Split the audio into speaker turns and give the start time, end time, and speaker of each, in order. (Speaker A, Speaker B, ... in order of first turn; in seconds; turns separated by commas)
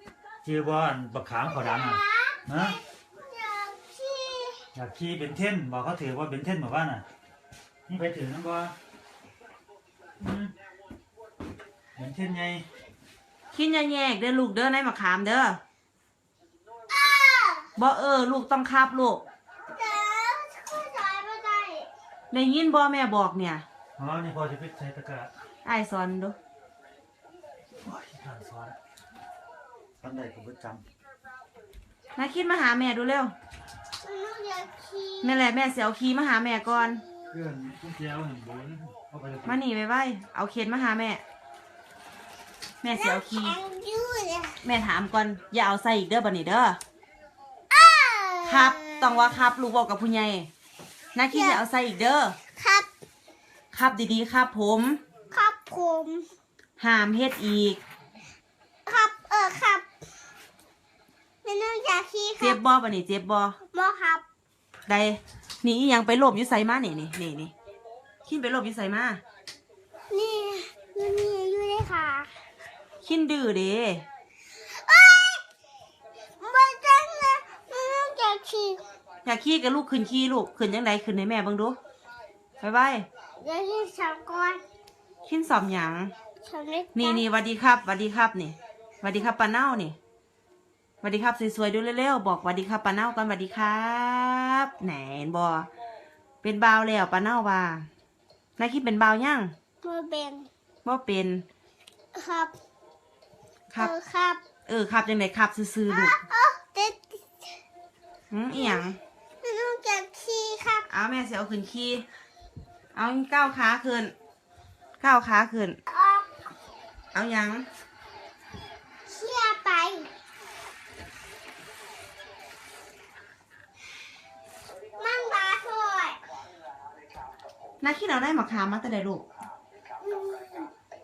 Speaker A: 0.4-2.8, Speaker B: 1.5-4.7, Speaker A: 4.7-7.0, Speaker A: 7.9-8.7, Speaker A: 10.2-10.5, Speaker A: 11.9-12.7, Speaker C: 13.5-15.6, Speaker B: 16.9-17.7, Speaker C: 17.8-19.2, Speaker B: 19.7-21.9, Speaker C: 22.3-23.6, Speaker A: 24.0-25.3, Speaker C: 25.6-26.4, Speaker A: 27.8-28.8, Speaker A: 30.0-30.8, Speaker C: 32.1-33.3, Speaker B: 34.0-35.5, Speaker C: 35.2-37.0, Speaker A: 37.3-39.6, Speaker C: 39.4-41.2, Speaker C: 42.8-43.6, Speaker B: 43.0-44.6, Speaker C: 44.6-46.8, Speaker B: 47.7-49.4, Speaker C: 48.5-50.5, Speaker C: 51.1-52.4, Speaker B: 51.3-51.6, Speaker B: 52.5-52.9, Speaker C: 53.7-55.0, Speaker B: 55.3-56.3, Speaker C: 56.8-57.8, Speaker B: 58.9-59.9, Speaker B: 61.4-62.6, Speaker C: 62.4-63.6, Speaker B: 63.7-64.2, Speaker C: 64.9-67.5, Speaker C: 68.2-69.2, Speaker B: 70.1-72.3, Speaker C: 73.0-74.0, Speaker B: 74.7-75.4, Speaker B: 76.4-78.8, Speaker C: 79.2-81.8, Speaker C: 82.6-83.1, Speaker B: 83.4-84.6, Speaker C: 85.2-86.1, Speaker B: 86.4-87.2, Speaker C: 86.9-90.0, Speaker C: 91.0-95.7, Speaker C: 96.4-97.9, Speaker C: 98.6-99.5, Speaker B: 99.8-100.5, Speaker C: 100.8-101.4, Speaker B: 102.1-102.5, Speaker B: 103.8-104.4, Speaker C: 104.7-106.2, Speaker B: 105.9-107.2, Speaker C: 108.3-109.0, Speaker B: 108.5-108.8, Speaker B: 109.4-110.9, Speaker C: 110.9-112.0, Speaker C: 112.9-114.1, Speaker C: 115.0-115.8, Speaker B: 115.9-116.3, Speaker C: 117.1-117.7, Speaker B: 119.1-120.1, Speaker B: 125.0-126.2, Speaker C: 127.8-129.2, Speaker B: 130.0-130.7